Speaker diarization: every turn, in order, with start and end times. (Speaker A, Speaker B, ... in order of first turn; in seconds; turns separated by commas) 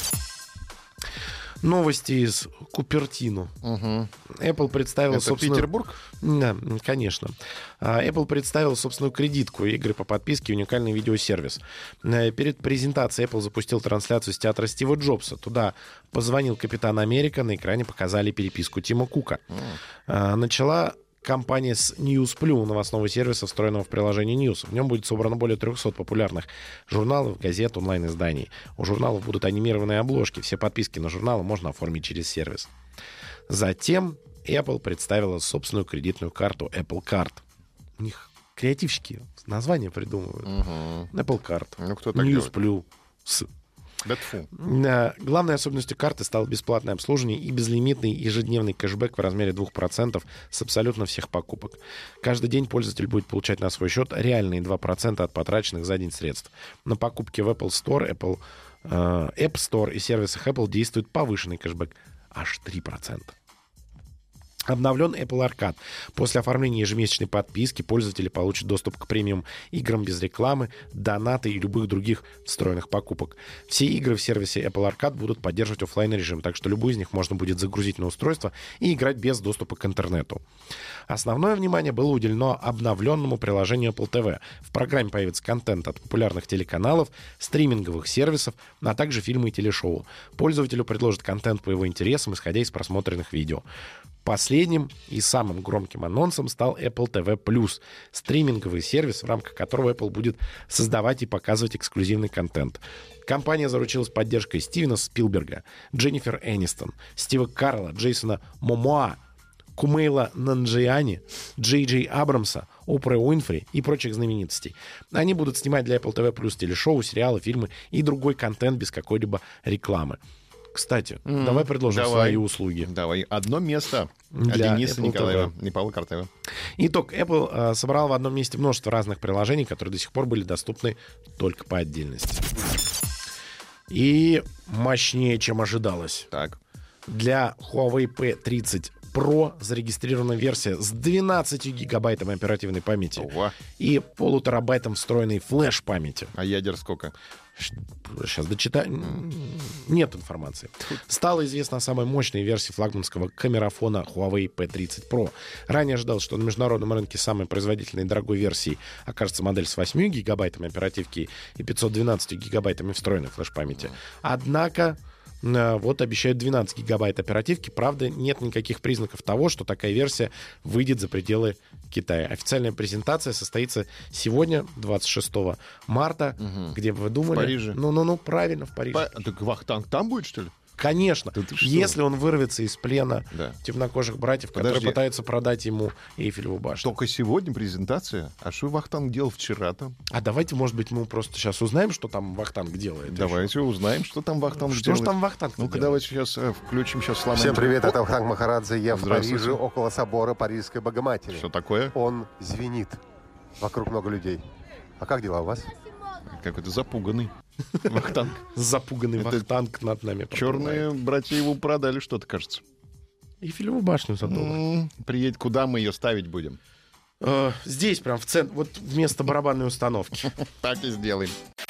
Speaker A: 1.6-3.5, Speaker B: 3.6-4.1, Speaker A: 4.3-19.4, Speaker B: 5.1-6.0, Speaker B: 19.5-19.8, Speaker A: 20.1-32.7, Speaker A: 33.5-37.4, Speaker A: 38.0-43.5, Speaker B: 40.5-41.1, Speaker B: 41.8-42.5, Speaker B: 44.0-44.5, Speaker A: 44.5-63.4, Speaker A: 64.7-80.4, Speaker A: 81.1-93.6, Speaker A: 94.2-109.2, Speaker A: 109.8-120.2, Speaker A: 120.7-122.9, Speaker B: 121.2-126.3, Speaker A: 124.3-125.5, Speaker A: 126.8-132.4, Speaker A: 133.9-136.3, Speaker B: 136.3-136.6, Speaker A: 137.1-146.3, Speaker B: 143.2-143.6, Speaker B: 146.3-147.1, Speaker A: 147.6-179.2, Speaker B: 176.4-176.8, Speaker B: 177.3-177.8, Speaker B: 178.9-180.5, Speaker A: 180.8-186.9, Speaker B: 181.3-182.0, Speaker B: 183.3-183.6, Speaker B: 184.5-185.0, Speaker B: 186.8-189.9, Speaker A: 190.1-193.5, Speaker B: 193.1-198.0, Speaker A: 194.6-196.0, Speaker C: 197.3-203.0, Speaker B: 198.9-199.6, Speaker B: 201.3-201.9, Speaker C: 203.6-204.4, Speaker C: 205.0-205.7, Speaker B: 206.2-207.3, Speaker B: 207.8-208.4, Speaker A: 208.3-210.9, Speaker B: 209.2-209.4, Speaker B: 210.3-212.6, Speaker A: 213.4-214.6, Speaker B: 214.2-216.6, Speaker A: 217.2-220.4, Speaker B: 220.6-221.3